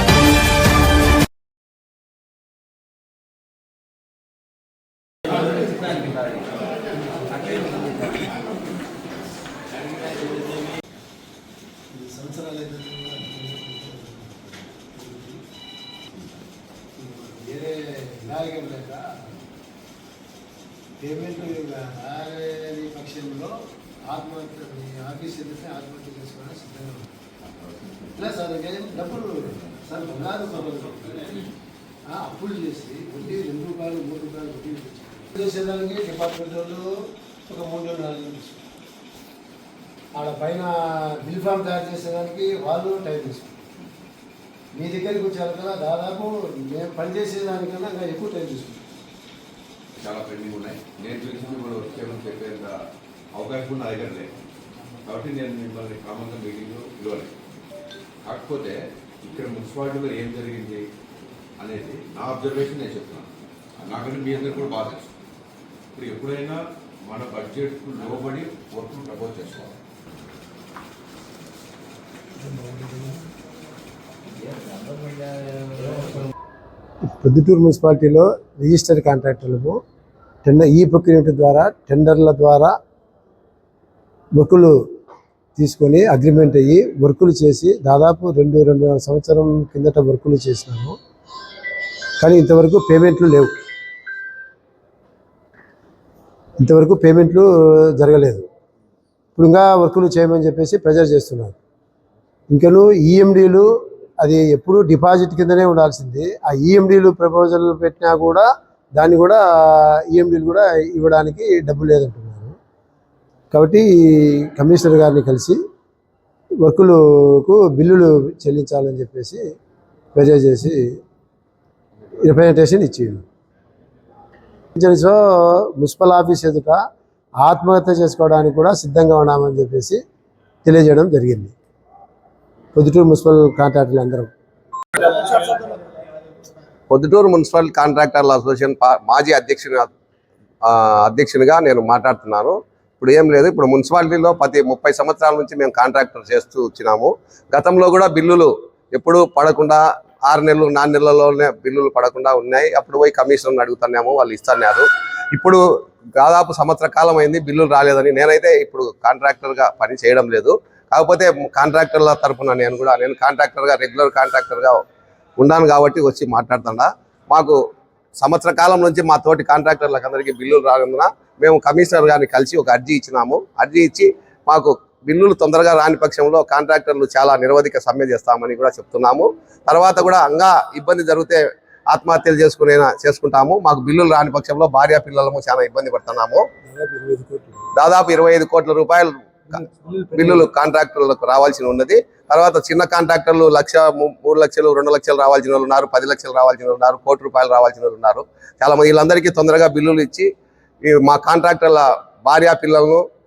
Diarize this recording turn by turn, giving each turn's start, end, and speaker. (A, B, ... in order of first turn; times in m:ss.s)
0:11.9-0:14.4 A
0:14.9-0:15.4 A
0:17.0-0:19.1 A
0:21.0-0:23.6 A
0:24.1-0:27.1 A
0:28.1-0:31.4 A
0:32.1-0:36.9 A
0:37.5-0:38.6 A
0:40.1-0:43.6 A
0:44.7-0:48.8 A
0:50.0-0:52.7 B
0:53.4-0:54.3 B
0:55.0-0:57.3 B
0:58.3-1:00.8 B
1:01.6-1:05.1 B
1:06.0-1:09.8 B
1:12.5-1:13.2 A
1:17.1-1:19.8 A
1:20.4-1:22.8 A
1:24.4-1:24.8 A
1:25.6-1:31.0 A
1:32.2-1:33.5 A
1:36.6-1:38.4 A
1:39.4-1:41.6 A
1:42.5-1:43.7 A
1:44.2-1:52.6 A
1:53.5-1:55.6 A
1:56.6-1:59.4 A
2:00.1-2:00.9 A
2:02.2-2:03.2 A
2:04.8-2:06.8 A
2:07.4-2:10.0 A
2:10.6-2:11.6 A
2:12.7-2:14.3 A
2:16.9-2:19.9 C
2:20.6-2:35.6 C
2:36.2-2:44.8 C
2:45.4-2:47.6 C
2:48.2-3:06.5 C
3:06.6-3:07.7 A
3:07.8-3:09.2 C
3:09.5-3:10.5 A
3:10.1-3:20.3 C
3:20.9-3:23.0 C